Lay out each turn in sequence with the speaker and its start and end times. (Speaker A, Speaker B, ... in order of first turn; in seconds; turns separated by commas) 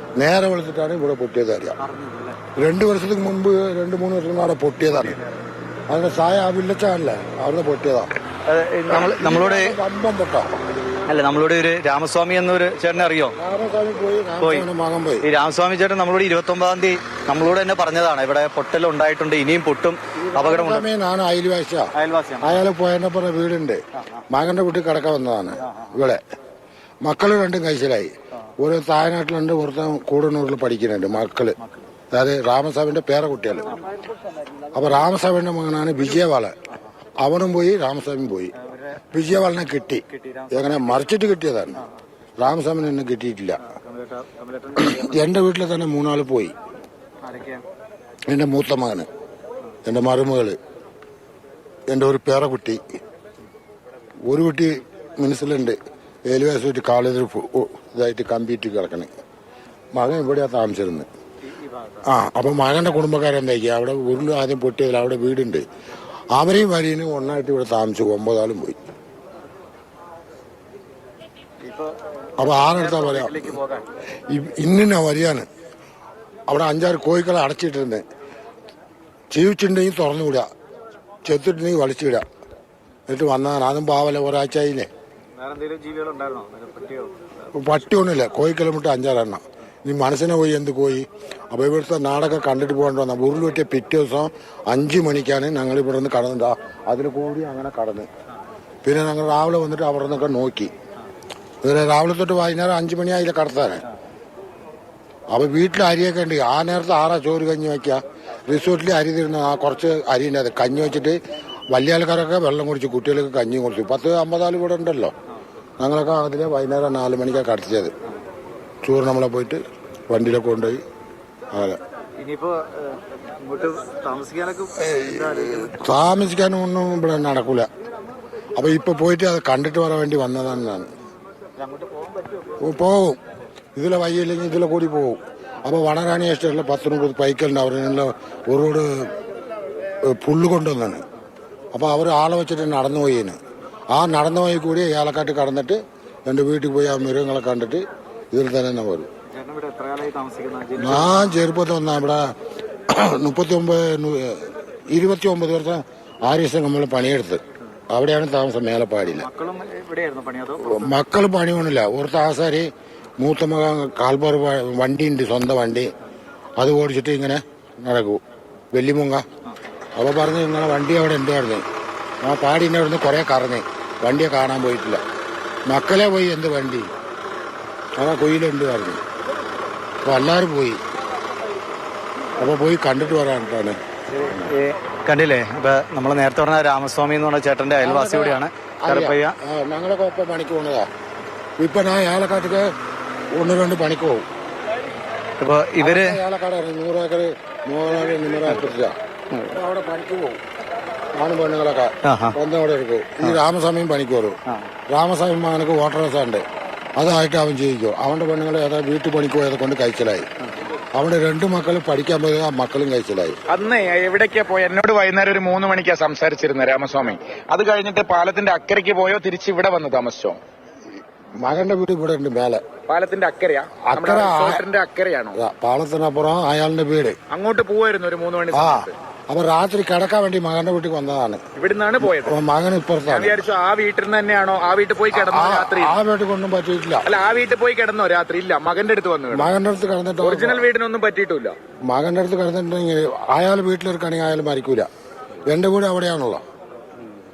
Speaker A: 0.2-1.8, Speaker B: 1.8-2.4, Speaker A: 2.6-5.2, Speaker B: 4.9-5.4, Speaker A: 5.9-8.1, Speaker B: 8.5-9.8, Speaker A: 8.9-10.6, Speaker B: 11.1-13.3, Speaker A: 13.4-15.2, Speaker B: 14.4-14.7, Speaker B: 15.2-20.9, Speaker A: 20.2-21.9, Speaker B: 21.9-22.6, Speaker A: 22.4-26.2, Speaker B: 25.6-25.9, Speaker A: 27.0-31.6, Speaker B: 31.6-31.9, Speaker A: 32.1-33.8, Speaker A: 34.7-36.5, Speaker A: 37.2-38.5, Speaker B: 38.6-39.1, Speaker A: 39.1-41.8, Speaker B: 40.1-41.0, Speaker A: 42.4-43.6, Speaker B: 43.6-45.2, Speaker A: 44.8-46.5, Speaker B: 47.2-47.6, Speaker A: 48.3-49.1, Speaker A: 49.9-50.6, Speaker A: 51.9-52.8, Speaker A: 54.3-59.1, Speaker A: 59.9-61.1, Speaker B: 61.5-62.0, Speaker A: 62.1-65.6, Speaker A: 66.3-68.8, Speaker B: 71.6-73.8, Speaker A: 72.4-73.6, Speaker A: 74.3-75.5, Speaker A: 76.5-78.0, Speaker A: 79.3-80.5, Speaker A: 81.2-82.2, Speaker A: 83.1-84.9, Speaker B: 85.4-87.2, Speaker A: 87.5-98.1, Speaker A: 98.8-100.7, Speaker A: 101.6-103.8, Speaker A: 105.3-111.2, Speaker A: 111.7-115.1, Speaker A: 115.8-117.9, Speaker A: 118.8-120.8, Speaker A: 121.5-121.8, Speaker B: 122.2-125.7, Speaker A: 124.8-127.7, Speaker A: 128.6-130.9, Speaker B: 131.6-132.5, Speaker A: 132.6-133.2, Speaker A: 133.8-139.1, Speaker A: 140.0-141.0, Speaker A: 141.7-143.4, Speaker A: 143.9-149.1, Speaker B: 149.3-151.3, Speaker A: 150.8-152.3, Speaker A: 152.9-159.3, Speaker B: 159.2-161.0, Speaker A: 160.6-165.9, Speaker A: 166.6-168.2, Speaker A: 168.7-169.2, Speaker A: 170.0-171.6, Speaker A: 172.2-175.0, Speaker A: 175.7-176.9, Speaker A: 178.0-179.0, Speaker A: 180.1-180.8, Speaker A: 182.4-184.5, Speaker B: 184.1-189.4, Speaker A: 187.8-190.9, Speaker A: 191.6-192.6, Speaker A: 193.3-194.2, Speaker B: 195.4-196.2, Speaker A: 195.8-198.9, Speaker B: 199.3-199.6, Speaker A: 199.5-200.4, Speaker A: 201.2-204.4, Speaker B: 202.0-202.4, Speaker A: 204.9-206.4, Speaker A: 207.0-210.3, Speaker A: 211.0-213.4, Speaker C: 213.5-220.4, Speaker A: 221.4-222.6, Speaker C: 222.9-225.4, Speaker A: 223.8-224.6, Speaker A: 225.3-227.2, Speaker C: 227.3-228.9, Speaker A: 228.5-231.4, Speaker C: 231.6-232.4, Speaker A: 232.0-233.4, Speaker C: 233.1-236.0, Speaker A: 235.1-237.1, Speaker C: 237.1-239.5, Speaker A: 239.3-240.7, Speaker C: 240.2-241.6, Speaker A: 241.9-244.9, Speaker A: 245.5-246.4